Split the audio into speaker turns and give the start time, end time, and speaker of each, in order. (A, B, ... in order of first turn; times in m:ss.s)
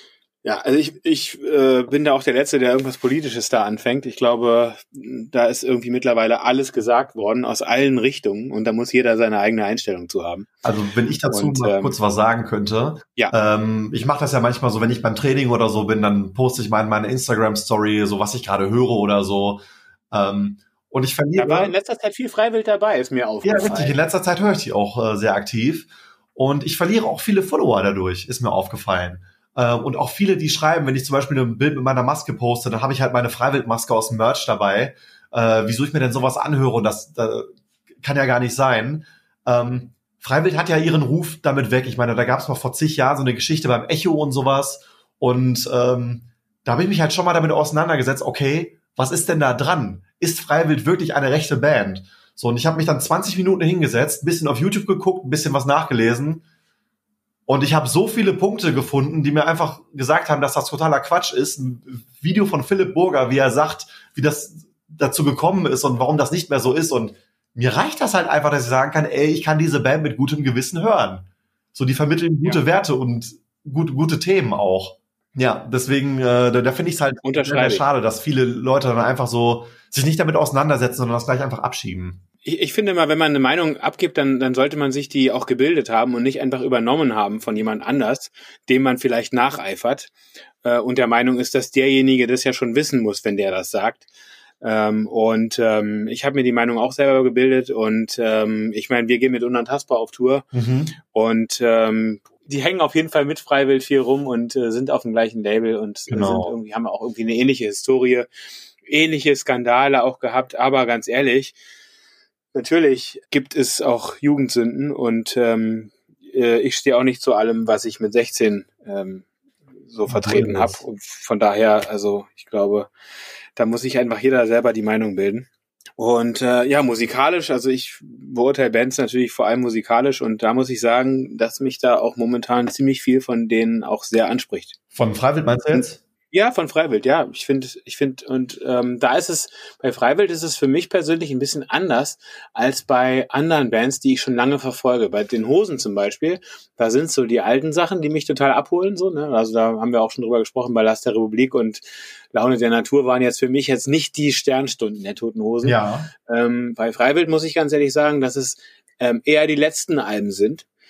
0:00.4-0:10.5 A
0:10.6-0:21.7 B
0:11.3-0:11.9 A
0:21.4-0:24.0 A
0:23.4-0:37.5 B
0:38.0-0:56.4 B
0:57.5-1:22.2 B
1:17.2-1:17.9 A
1:22.4-1:34.1 A
1:34.6-1:40.5 A
1:40.5-1:41.0 B
1:41.1-1:48.3 A
1:46.1-1:46.5 B
1:48.9-1:51.6 A
1:52.5-1:59.3 A
1:59.9-2:02.9 A
2:00.1-2:00.8 B
2:03.6-2:14.8 A
2:14.9-2:16.0 B
2:15.7-2:40.6 A
2:35.6-2:36.1 B